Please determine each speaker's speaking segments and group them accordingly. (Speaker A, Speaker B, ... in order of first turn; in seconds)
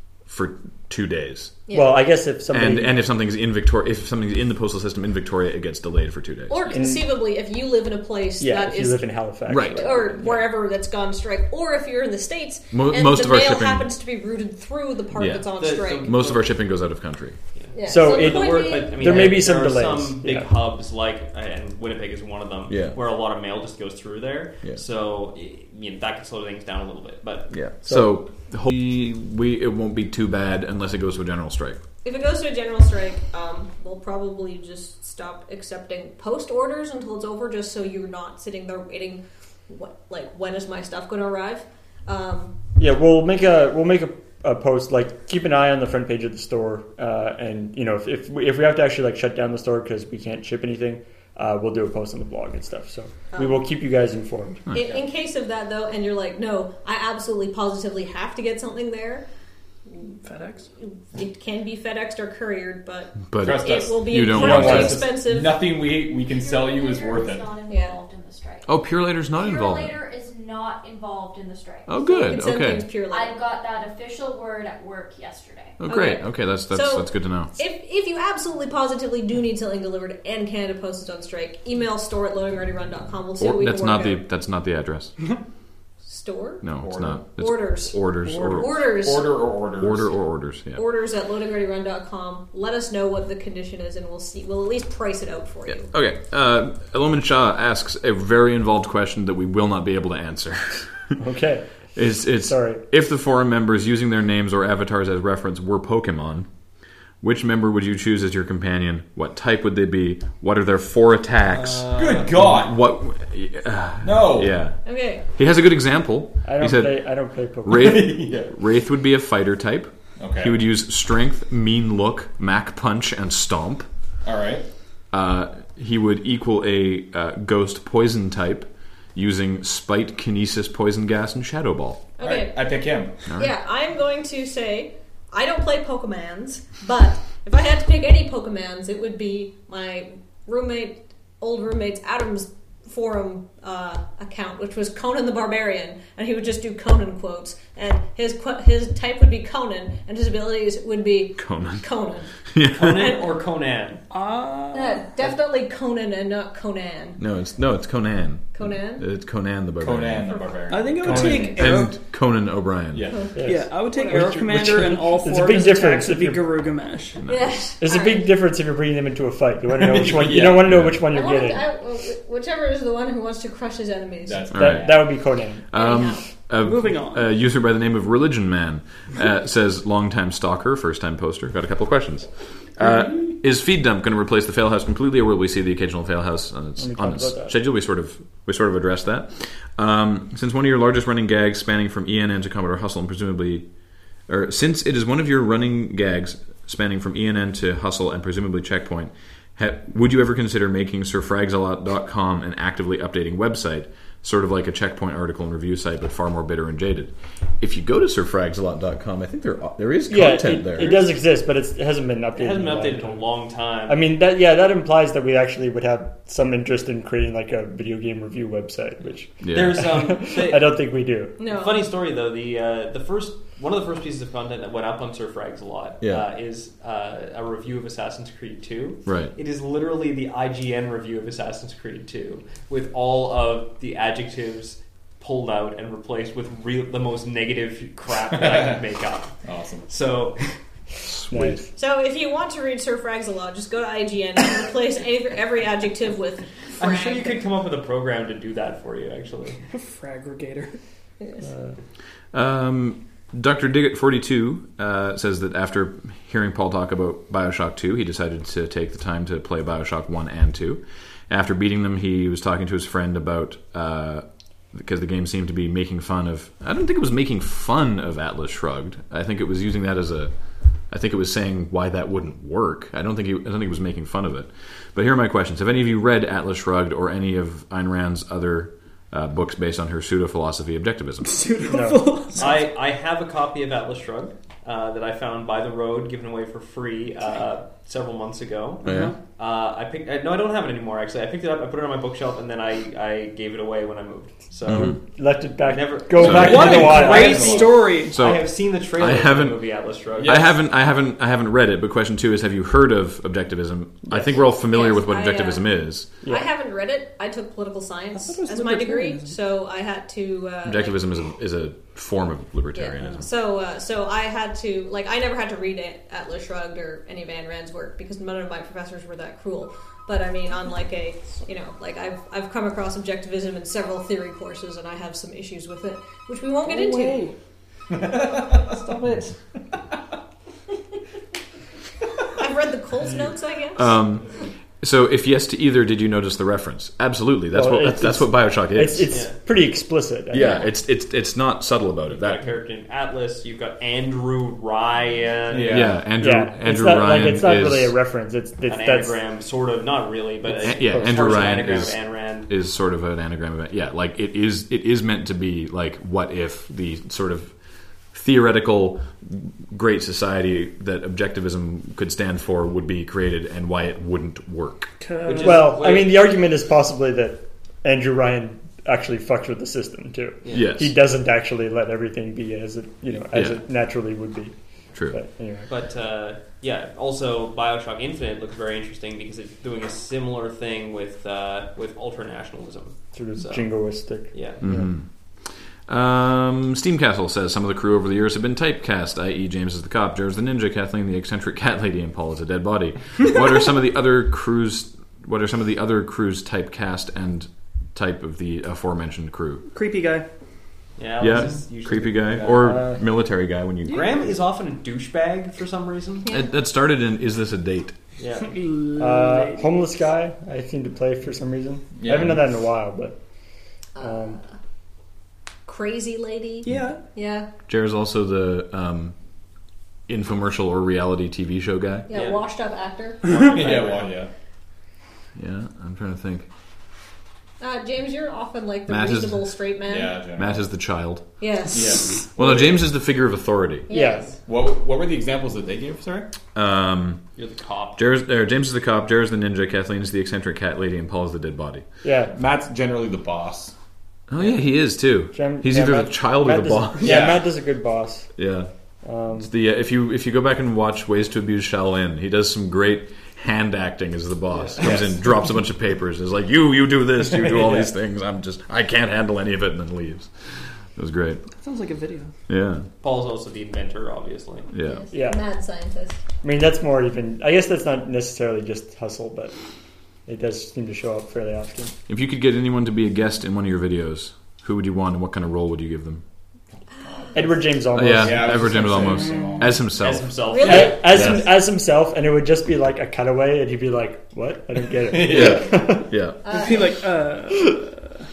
Speaker A: 0.2-1.6, 2.5-6.6, 9.5-9.9, 12.7-13.9, 15.1-15.5, 16.0-17.4, 22.7-23.0, 27.5-31.8, 54.7-55.0, 63.3-65.1, 68.7-70.0, 71.9-72.9, 75.8-77.5, 83.4-85.2, 86.6-88.8, 89.8-90.8, 95.7-101.2, 102.0-106.5, 107.2-117.0, 117.7-123.9, 125.1-132.1, 151.3-151.9, 152.5-153.2, 157.2-160.3, 161.0-163.1, 167.2-167.5, 174.5-193.7, 194.3-211.1, 219.4-219.9, 229.1-229.3, 241.0-241.6, 252.3-270.3, 270.9-281.4, 288.8-289.1, 294.6-295.0, 296.2-297.0, 298.1-299.6, 300.2-306.1, 310.6-313.3, 333.7-339.1, 340.3-342.4, 345.7-347.9, 350.6-357.6, 358.1-364.9, 370.5-370.9, 373.2-373.6, 384.6-399.7, 401.2-404.2, 406.3-407.9, 417.7-419.1, 420.1-422.1, 425.4-426.5, 428.9-429.6, 430.4-431.2, 432.3-433.9, 436.5-437.2, 438.0-441.8, 444.3-447.3, 448.4-448.7, 449.4-461.4, 462.5-462.9, 464.7-465.0, 472.1-476.2, 477.9-481.5, 485.2-486.4
Speaker B: 1.7-2.0, 6.5-16.1, 17.7-19.3, 32.0-42.5, 53.3-53.6, 54.7-59.2, 59.9-60.2, 60.8-65.7, 67.7-68.0, 72.0-73.4, 75.8-84.2, 86.0-86.7, 87.4-89.5, 90.7-95.9, 114.8-115.2, 132.2-152.3, 154.7-157.2, 158.5-159.1, 161.2-161.6, 163.1-164.2, 167.2-168.3, 171.1-174.5, 175.7-176.2, 221.4-221.8, 241.7-247.4, 304.6-311.0, 312.7-327.3, 332.3-333.9, 340.3-340.7, 413.9-414.4, 415.6-417.5, 422.1-423.8, 427.6-430.2, 431.4-432.2, 433.9-434.3, 464.8-466.2, 480.5-481.0, 486.4-486.9
Speaker C: 1.7-3.0, 6.7-7.1, 8.4-10.5, 17.8-20.5, 27.8-28.2, 42.8-54.6, 101.2-102.8, 116.4-118.2, 163.3-166.4, 167.8-171.6, 174.5-175.6, 186.8-187.6, 210.1-213.2, 213.9-221.3, 241.3-241.7, 251.4-251.8, 281.6-282.2, 294.8-297.6, 306.2-306.5, 337.5-340.7, 346.2-349.1, 350.5-351.4, 365.4-374.5, 375.1-375.7, 383.1-384.9, 402.4-403.0, 409.0-413.1, 414.0-414.4, 433.9-434.3, 442.0-442.3, 445.3-448.3, 449.0-449.5, 465.1-465.4, 466.4-469.5, 470.2-471.9, 477.3-478.8, 480.6-486.1
Speaker D: 15.6-16.5, 17.5-27.5, 111.5-112.3, 152.7-154.0, 212.3-214.0, 219.5-220.8, 221.4-240.5, 246.8-249.6, 282.3-295.0, 295.6-300.5, 339.1-339.4, 342.1-345.9, 348.6-352.5, 365.2-366.2, 370.4-370.7, 375.7-383.7, 384.3-384.6, 401.0-402.8, 403.8-406.3, 408.2-408.5, 422.1-422.4, 423.2-424.1, 437.4-438.0, 463.0-464.7, 480.0-481.4
Speaker E: 60.2-60.7, 154.1-155.1, 160.7-162.0, 163.4-167.2, 176.6-177.3, 249.7-250.8, 281.2-282.5, 288.8-289.2, 296.3-298.2, 308.1-309.4, 326.6-327.4, 328.1-329.4, 365.0-365.8, 399.7-400.2, 403.8-404.2, 408.4-409.7, 416.6-417.0, 461.5-462.3, 479.1-479.8, 486.4-488.2
Speaker F: 63.4-67.5, 86.8-87.2, 88.2-90.1, 111.8-112.8, 114.0-114.6, 117.7-118.5, 120.2-120.6, 124.2-124.6, 132.2-133.1, 159.8-161.8, 162.9-163.5, 164.1-164.8, 169.8-170.8, 174.2-175.1, 182.8-183.4, 238.3-238.8, 239.4-239.9, 296.2-297.7, 300.2-300.5, 328.1-328.5, 345.5-346.0, 412.0-412.4, 423.4-424.3, 429.9-430.7, 431.7-432.5, 434.4-436.3, 442.3-443.7, 447.0-447.4, 454.8-455.1, 457.3-457.9, 477.1-479.8, 485.1-485.8
Speaker G: 66.1-68.7, 69.3-72.0, 73.1-75.8